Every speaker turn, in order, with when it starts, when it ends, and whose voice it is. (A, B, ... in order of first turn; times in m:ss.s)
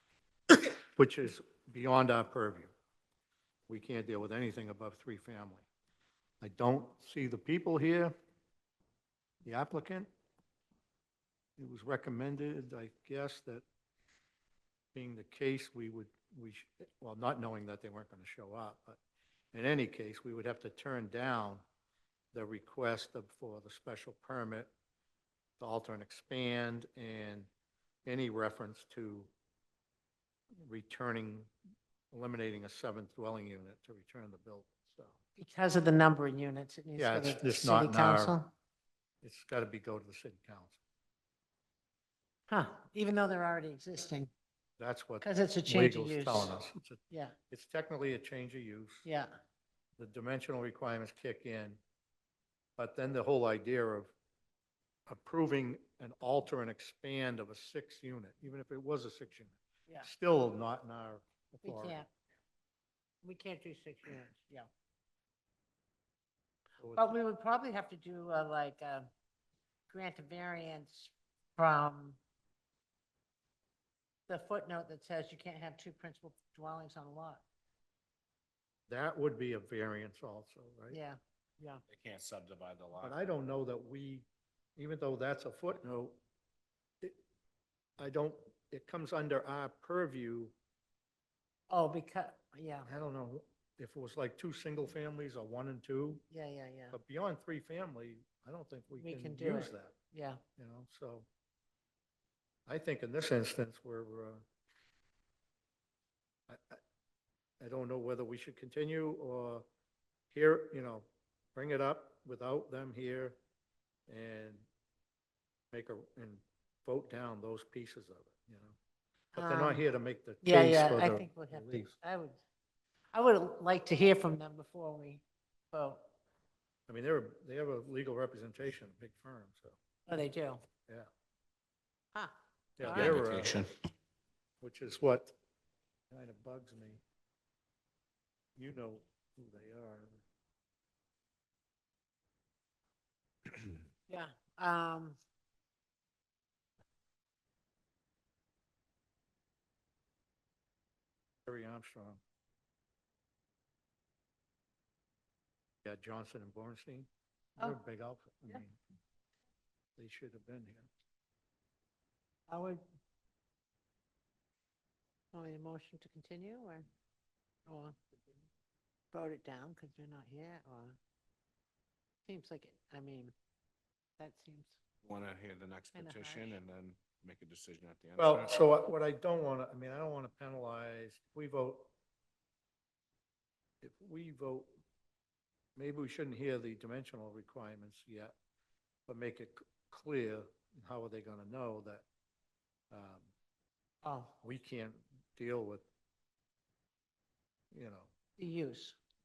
0:00.5-0:02.7 A
0:03.7-0:05.7 A
0:06.4-0:08.1 A
0:09.4-0:10.1 A
0:11.6-0:13.6 A
0:15.0-0:19.0 A
0:19.5-0:21.6 A
0:22.3-0:24.7 A
0:25.6-0:27.5 A
0:28.1-0:29.3 A
0:30.6-0:31.5 A
0:32.1-0:35.2 A
0:35.4-0:38.5 B
0:37.0-0:38.4 A
0:39.2-0:40.8 A
0:42.5-0:44.3 B
0:44.8-0:47.0 A
0:45.2-0:46.5 B
0:47.5-0:49.1 A
0:49.0-0:49.3 B
0:50.0-0:51.8 A
0:52.8-0:54.1 A
0:55.1-1:02.0 A
1:01.6-1:02.1 B
1:03.2-1:04.7 B
1:06.8-1:07.1 A
1:07.0-1:09.1 B
1:09.9-1:12.2 B
1:14.3-1:17.4 B
1:18.9-1:21.0 A
1:20.9-1:21.8 B
1:21.9-1:23.2 C
1:23.0-1:24.3 A
1:24.8-1:26.2 A
1:28.0-1:30.5 A
1:31.7-1:32.9 B
1:32.9-1:36.2 A
1:36.3-1:37.0 B
1:36.9-1:39.9 A
1:39.0-1:40.4 B
1:40.6-1:41.3 A
1:42.7-1:44.4 A
1:46.5-1:46.8 A
1:47.6-1:49.6 A
1:50.3-1:53.4 A
1:54.1-1:54.7 A
1:55.7-1:58.8 A
1:59.4-1:59.9 B
1:59.4-2:02.0 A
2:00.4-2:02.4 B
2:03.1-2:05.2 B
2:05.7-2:06.0 B
2:06.9-2:09.8 A
2:10.1-2:10.6 B
2:12.1-2:13.2 B
2:12.8-2:13.6 A
2:12.9-2:13.7 C
2:14.6-2:15.4 A
2:16.1-2:17.0 A
2:18.6-2:20.2 A
2:24.1-2:25.2 B
2:31.5-2:32.2 A
2:35.8-2:38.8 A
2:40.0-2:40.9 A
2:42.5-2:42.8 B
2:45.3-2:46.9 B
2:47.7-2:48.4 B
2:49.1-2:51.0 B
2:52.3-2:53.4 B
2:54.2-2:54.8 B
2:55.0-2:58.6 C
2:56.0-2:56.6 B
2:58.2-3:01.9 A
3:03.8-3:04.7 A
3:05.8-3:08.3 A
3:09.1-3:12.0 A
3:12.9-3:13.3 A
3:14.0-3:14.3 B
3:14.4-3:15.8 A
3:17.7-3:18.1 A
3:18.4-3:19.0 B